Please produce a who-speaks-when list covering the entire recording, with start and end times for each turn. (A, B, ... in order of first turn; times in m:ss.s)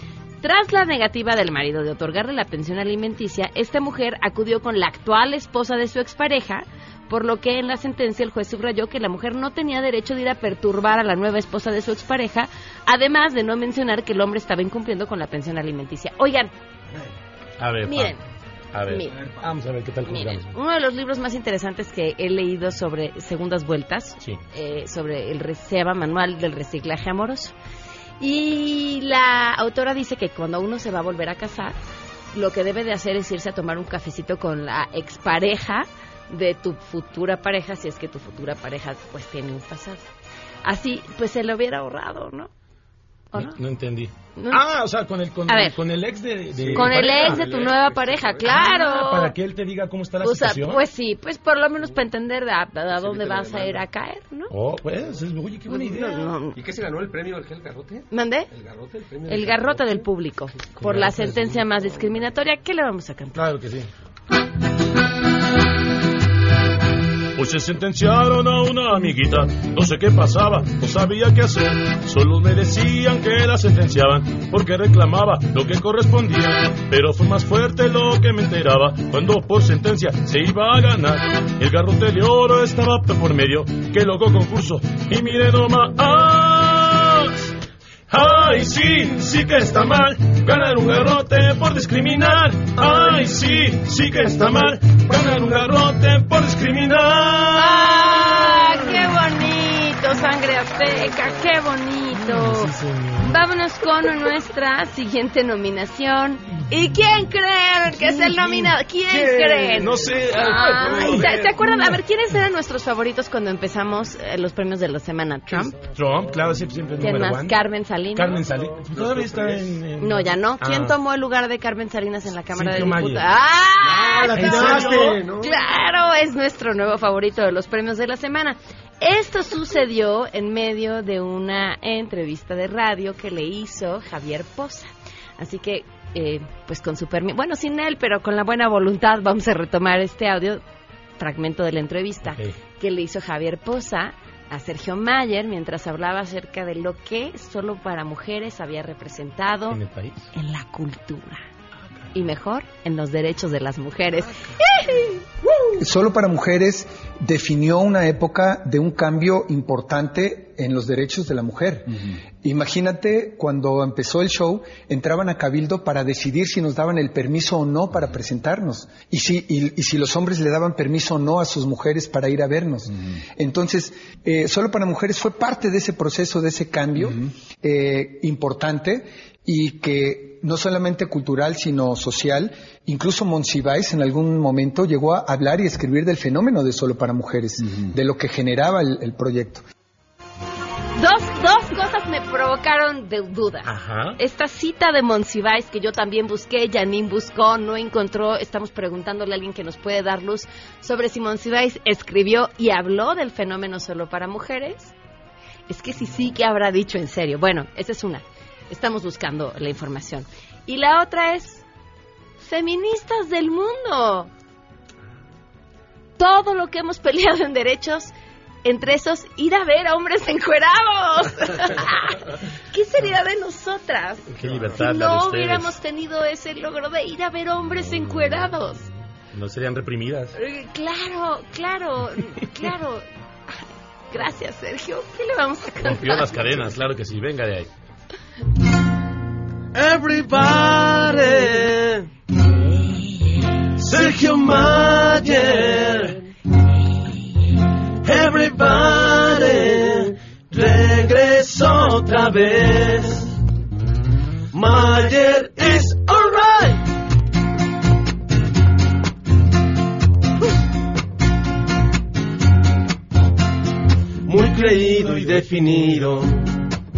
0:00.4-0:16.5 A
0:17.6-0:18.2 B
0:17.8-0:18.2 A
0:18.7-0:20.5 B
0:18.9-0:19.2 A
0:19.2-0:19.4 C
0:20.0-0:27.5 A
0:28.2-0:31.8 A
0:32.3-0:40.1 A
0:40.6-0:42.5 A
0:43.3-0:47.5 B
0:44.4-0:44.6 A
0:45.5-0:45.8 A
0:46.6-0:48.6 C
0:46.7-0:49.3 A
0:48.4-0:50.8 B
0:50.2-0:54.5 A
0:52.9-0:53.9 C
0:54.5-0:56.3 B
0:55.7-0:56.6 A
0:56.5-1:00.1 C
0:58.1-0:58.5 A
0:59.3-1:03.4 A
1:00.8-1:01.6 B
1:03.3-1:03.9 B
1:07.4-1:27.5 B
1:28.1-1:38.8 B
1:37.6-1:55.8 A
1:42.1-1:43.4 B
1:47.9-1:52.0 B
1:55.5-1:57.6 B
1:57.0-1:58.4 A
1:58.1-2:01.0 B
1:58.9-1:59.7 C
2:00.0-2:20.6 A
2:02.5-2:03.3 B
2:04.0-2:05.2 B
2:04.3-2:05.4 D
2:21.2-2:29.8 A
2:22.2-2:22.5 B
2:29.7-2:30.2 B
2:30.3-2:31.4 A
2:32.1-2:35.2 A
2:35.8-3:09.6 E
3:11.0-3:24.9 A
3:13.6-3:14.2 B
3:25.7-3:31.6 A
3:32.4-3:34.3 A
3:36.2-3:38.1 A
3:38.6-3:48.9 A
3:44.3-3:45.7 B
3:49.3-3:50.4 B
3:50.3-3:53.0 A
3:54.1-3:56.4 A
3:55.8-3:57.7 B
3:59.7-4:02.0 D
4:03.8-4:06.2 D
4:08.0-4:13.3 D
4:14.5-4:16.8 D
4:24.2-4:26.4 D